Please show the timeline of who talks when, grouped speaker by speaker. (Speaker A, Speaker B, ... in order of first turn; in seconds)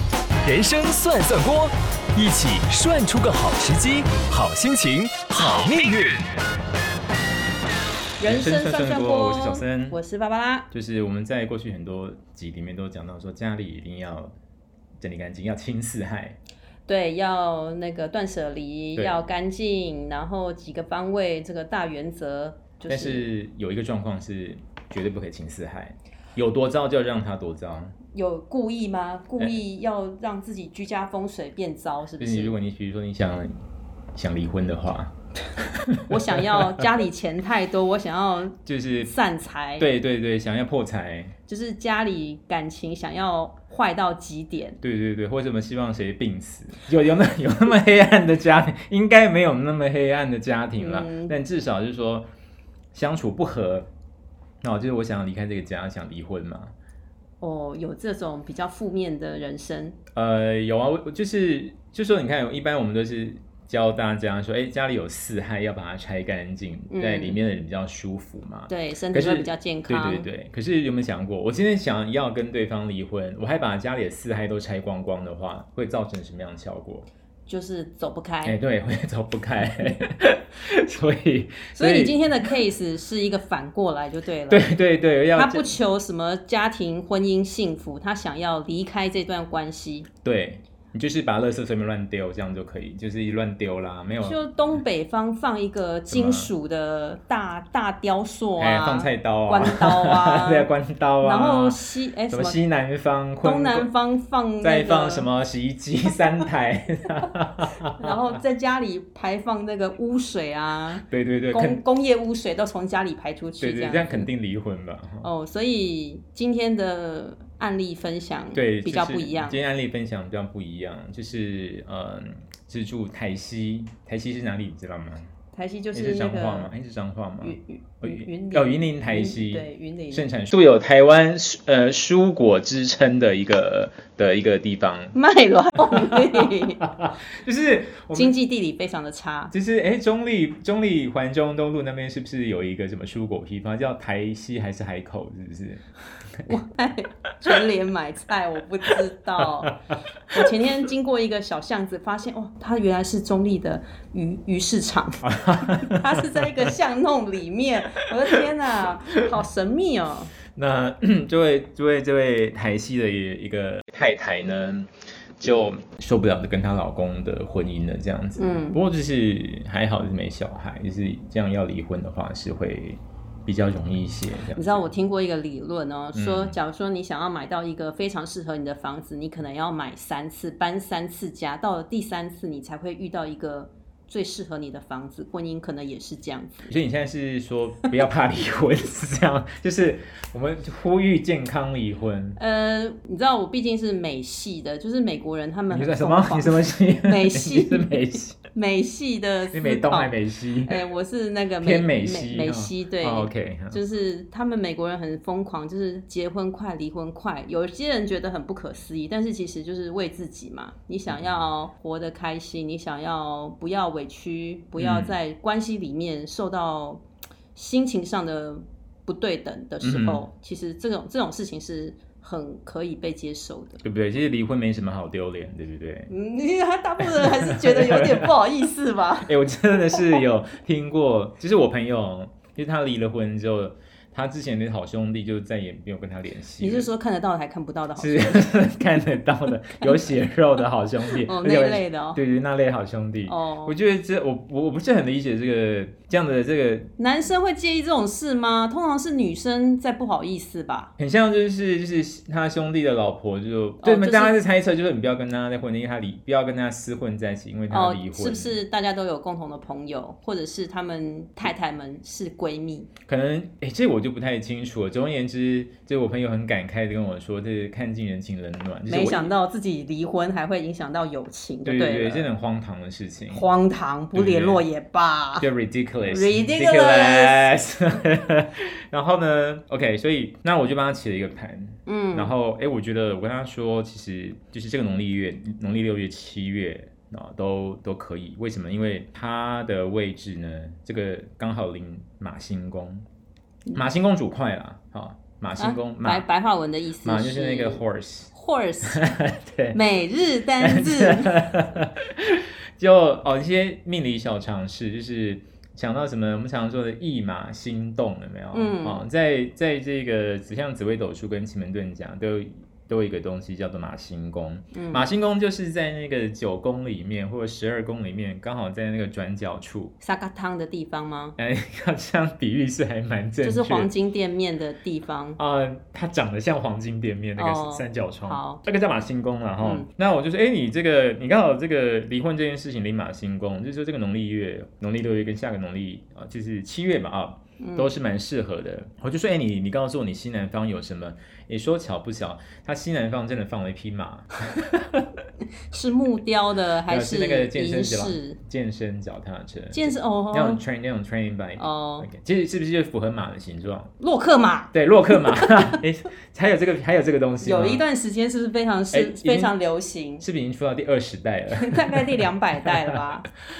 Speaker A: 0.4-6.2
Speaker B: 8.2-10.7, 16.9-23.3, 28.1-32.5, 36.1-39.9, 41.5-44.8, 50.8-51.4, 57.4-60.0, 66.9-67.4, 68.7-70.3, 77.5-78.6, 81.7-84.7, 85.3-90.1, 94.2-100.7, 101.2-102.6, 103.4-105.3, 107.8-114.3, 115.2-119.6, 125.5-126.7, 127.4-130.3, 135.1-136.8, 138.1-139.5, 146.5-149.8, 150.3-160.3, 168.4-168.8, 174.5-186.7, 192.4-200.1, 200.6-217.0, 217.5-223.8, 226.1-229.3, 236.6-238.6, 241.2-242.2, 243.3-243.8, 247.0-250.9, 253.8-254.4, 257.7-262.9, 268.9-272.3, 273.3-275.5, 276.1-277.5, 281.9-282.3, 295.6-299.0, 299.7-301.4, 308.5-309.0, 314.7-315.1, 320.0-321.4, 323.4-325.4, 327.4-328.6, 329.6-329.9, 337.6-337.9, 345.7-348.4, 349.7-350.6, 351.6-352.1, 354.0-355.8, 357.4-360.2, 361.5-363.3
Speaker C: 8.2-10.0, 10.7-14.3, 15.0-16.4, 18.9-19.2, 22.9-27.9, 32.2-33.5, 34.1-36.8, 38.6-39.1, 39.8-41.3, 44.8-52.3, 52.9-53.9, 54.6-56.7, 60.1-77.1, 78.4-82.2, 84.5-85.8, 90.2-94.4, 96.1-96.5, 98.6-101.8, 102.3-103.9, 104.6-108.2, 111.1-111.8, 113.6-115.3, 118.5-125.3, 125.9-135.2, 135.8-138.4, 139.5-145.8, 148.9-149.8, 155.2-156.7, 160.5-174.9, 176.1-176.6, 186.7-192.4, 195.7-198.4, 199.5-200.8, 201.6-203.8, 211.1-211.4, 214.8-215.2, 219.8-220.2, 223.8-226.1, 227.0-228.3, 229.2-236.9, 238.0-246.9, 251.0-258.6, 263.1-269.3, 271.6-273.5, 274.1-274.6, 275.4-293.0, 293.7-296.3, 297.0-298.3, 298.9-299.8, 300.6-319.9, 321.4-323.9, 325.4-345.2, 346.9-353.9, 354.7-357.8, 358.9-359.5, 360.2-363.0